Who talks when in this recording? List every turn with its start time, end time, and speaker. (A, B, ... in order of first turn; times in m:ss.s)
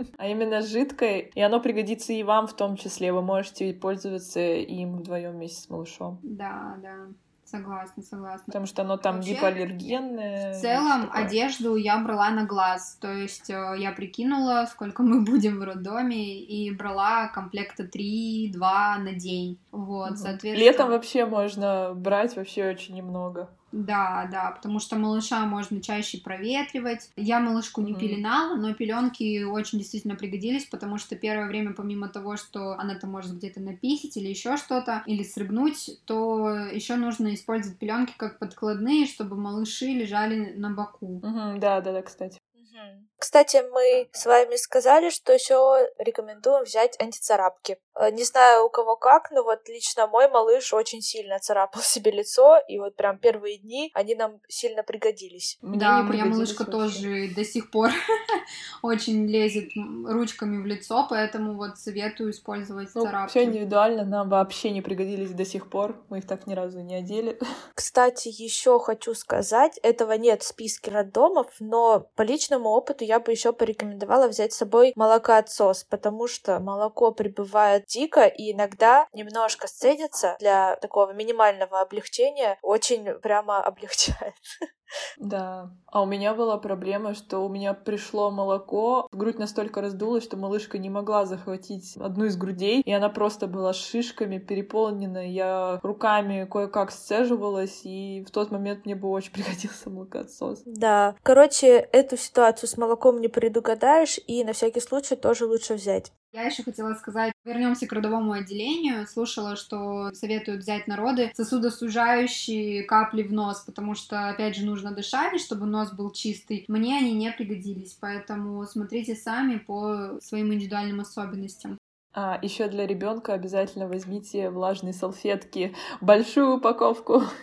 0:00.2-0:06.2 A
0:06.2-0:08.5 B
0:08.5-0:11.3 A
0:09.0-0:09.6 B
0:10.5-0:21.0 B
0:20.0-0:23.5 A
0:23.7-0:41.2 B
0:27.8-0:28.2 A
0:41.2-0:42.4 A
0:42.6-0:55.6 C
0:55.6-0:57.0 A
0:55.7-0:57.9 B
0:58.8-1:03.6 B
1:03.0-1:07.4 A
1:07.8-1:24.4 C
1:25.2-1:40.6 A
1:40.7-1:46.1 C
1:46.3-2:01.8 B
2:02.1-2:07.2 A